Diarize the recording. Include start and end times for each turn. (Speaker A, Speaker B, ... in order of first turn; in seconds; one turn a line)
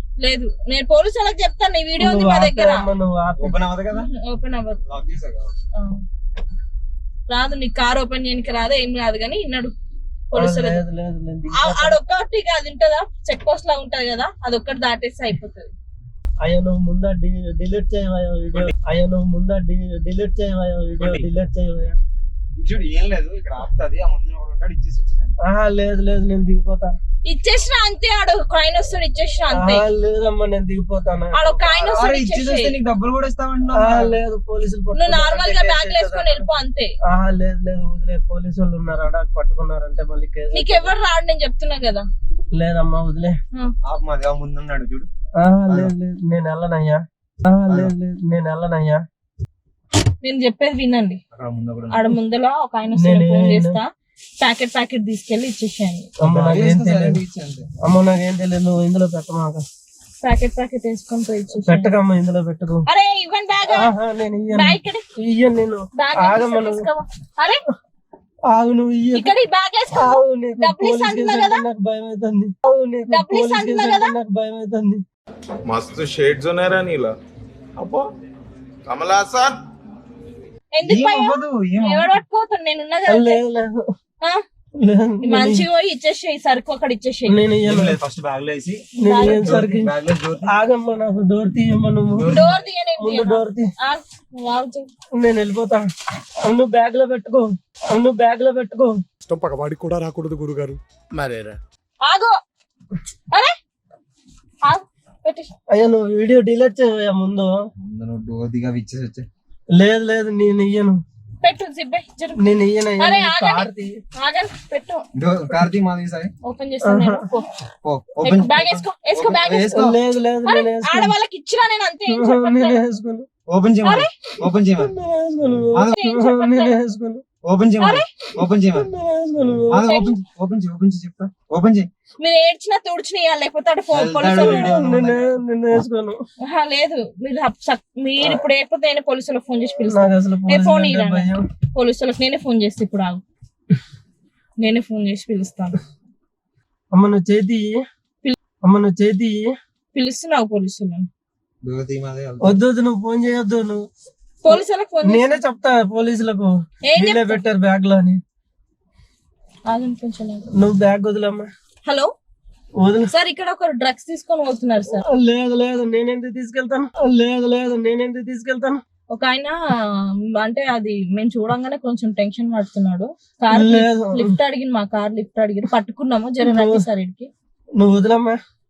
Speaker A: 0.2-2.9
Speaker B: 2.0-3.6
Speaker C: 3.4-4.1
Speaker A: 3.9-4.8
Speaker C: 4.9-5.5
Speaker A: 5.8-6.0
Speaker A: 7.3-9.7
Speaker A: 10.3-10.8
Speaker B: 10.3-12.0
Speaker A: 11.6-15.7
Speaker B: 16.4-22.0
Speaker C: 22.6-25.3
Speaker B: 25.4-26.9
Speaker A: 27.2-29.8
Speaker B: 29.5-32.0
Speaker A: 31.3-32.7
Speaker C: 31.9-34.2
Speaker B: 33.7-36.5
Speaker A: 34.9-36.9
Speaker B: 37.1-40.9
Speaker A: 40.5-42.1
Speaker B: 42.5-43.3
Speaker C: 43.8-45.1
Speaker B: 45.4-49.0
Speaker C: 45.7-45.9
Speaker C: 47.7-47.9
Speaker A: 50.2-51.2
Speaker C: 51.3-52.1
Speaker A: 51.9-53.9
Speaker B: 52.9-53.8
Speaker A: 54.4-56.1
Speaker B: 56.2-57.2
Speaker C: 56.2-57.7
Speaker B: 57.8-59.6
Speaker A: 60.2-61.9
Speaker B: 61.6-62.9
Speaker A: 62.9-63.9
Speaker B: 63.7-66.8
Speaker A: 64.5-65.0
Speaker A: 66.0-67.6
Speaker B: 68.5-69.3
Speaker A: 69.1-71.6
Speaker B: 69.9-75.0
Speaker A: 73.1-74.1
Speaker D: 75.7-77.1
Speaker D: 77.8-78.1
Speaker D: 78.9-79.6
Speaker A: 80.7-83.4
Speaker C: 80.8-82.1
Speaker B: 83.1-83.8
Speaker B: 84.8-85.7
Speaker A: 85.2-87.4
Speaker B: 87.3-88.0
Speaker C: 87.7-90.5
Speaker B: 89.0-89.9
Speaker A: 89.0-89.7
Speaker B: 90.5-92.5
Speaker A: 92.3-94.9
Speaker B: 93.0-93.7
Speaker B: 95.2-95.8
Speaker B: 96.4-98.9
Speaker E: 99.2-101.6
Speaker A: 102.0-102.3
Speaker A: 104.6-105.5
Speaker B: 105.7-107.5
Speaker C: 107.8-109.3
Speaker B: 109.7-111.0
Speaker A: 111.4-115.0
Speaker B: 112.4-113.9
Speaker C: 115.2-116.3
Speaker A: 116.4-117.5
Speaker B: 116.8-117.3
Speaker C: 117.8-120.0
Speaker A: 118.2-119.9
Speaker B: 119.7-121.1
Speaker A: 120.4-122.8
Speaker B: 122.1-123.3
Speaker C: 123.5-124.9
Speaker A: 123.8-124.1
Speaker B: 124.7-127.2
Speaker C: 125.7-126.0
Speaker A: 125.9-126.8
Speaker C: 127.4-128.9
Speaker A: 127.8-128.1
Speaker B: 128.4-130.0
Speaker C: 129.7-131.9
Speaker A: 132.2-134.7
Speaker C: 133.9-135.3
Speaker B: 134.3-136.2
Speaker A: 136.5-143.2
Speaker B: 139.9-141.4
Speaker A: 144.6-145.8
Speaker B: 146.9-147.8
Speaker B: 148.6-149.5
Speaker A: 149.9-151.1
Speaker C: 151.6-152.6
Speaker B: 152.4-153.8
Speaker A: 154.4-155.4
Speaker B: 154.5-158.2
Speaker A: 156.9-157.4
Speaker A: 159.7-160.4
Speaker B: 160.6-161.5
Speaker A: 161.8-162.1
Speaker B: 162.8-163.1
Speaker A: 163.1-165.0
Speaker B: 165.0-168.8
Speaker A: 169.1-169.6
Speaker A: 170.4-177.3
Speaker B: 173.5-174.4
Speaker B: 176.4-176.8
Speaker B: 177.8-178.4